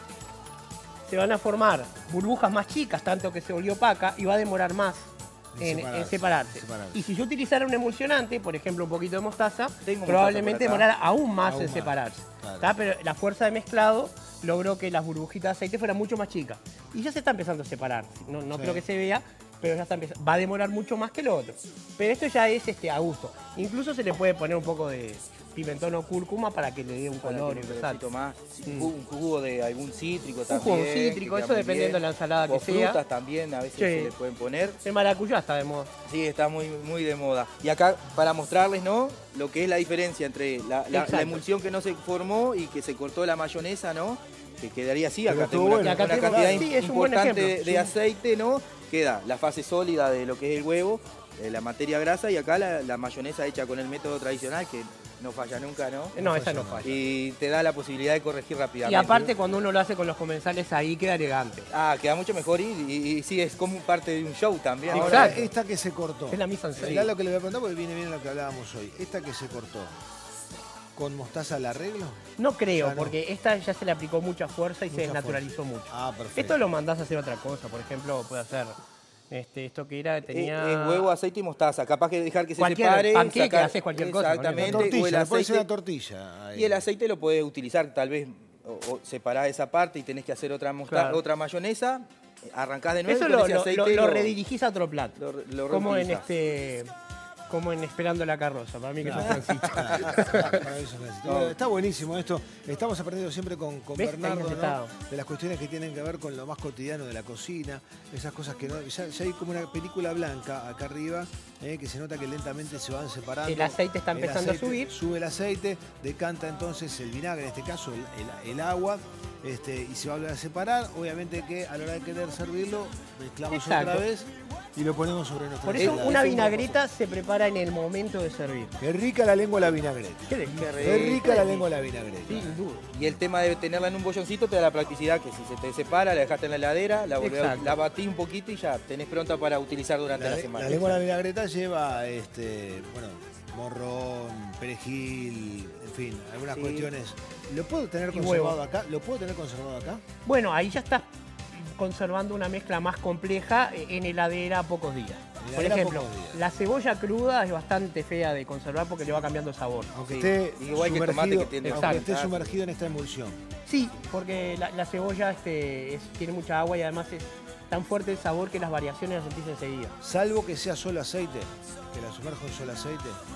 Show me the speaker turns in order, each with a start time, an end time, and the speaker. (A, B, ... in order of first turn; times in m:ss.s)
0:01.0-0:28.0 A
0:05.5-0:07.0 B
0:09.8-0:10.9 C
0:11.4-0:12.7 B
0:18.5-0:18.8 B
0:27.2-0:34.8 C
0:28.7-0:28.9 A
0:30.5-0:33.0 A
0:33.8-0:34.1 A
0:34.8-0:35.9 A
0:36.0-0:56.1 C
0:40.9-0:41.4 A
0:45.3-0:46.7 B
0:45.8-0:47.9 A
0:56.1-0:56.9 A
0:56.2-0:57.0 B
0:56.8-0:59.3 C
0:58.8-1:01.7 A
0:59.0-0:59.3 B
1:01.7-1:05.4 C
1:04.9-1:05.5 A
1:04.9-1:10.0 B
1:06.3-1:07.1 A
1:06.8-1:07.1 C
1:11.0-1:12.2 B
1:12.4-1:18.8 A
1:12.7-1:13.2 B
1:14.9-1:16.6 B
1:19.3-1:21.1 A
1:20.3-1:25.7 C
1:22.6-1:24.9 A
1:24.6-1:26.8 B
1:26.5-1:34.4 C
1:30.9-1:31.2 A
1:33.0-1:35.2 A
1:35.2-1:36.2 C
1:35.7-1:36.9 A
1:37.5-1:40.6 A
1:39.0-2:06.3 B
1:39.1-1:40.4 C
1:41.2-1:41.6 C
1:44.0-1:44.9 A
1:53.4-1:54.9 A
2:03.5-2:04.0 A
2:05.6-2:08.8 A
2:05.7-2:06.8 C
2:08.8-2:13.0 B
2:10.3-2:11.7 A
2:10.5-2:11.3 C
2:12.2-2:12.9 A
2:12.9-2:21.0 C
2:17.2-2:17.8 A
2:20.2-2:30.0 B
2:26.5-2:26.9 C
2:28.1-2:28.6 A
2:30.2-2:39.9 A
2:35.4-2:36.4 B
2:39.9-2:43.4 B
2:40.1-2:42.6 C
2:41.6-2:42.1 A
2:43.6-2:50.0 A
2:50.0-2:53.2 B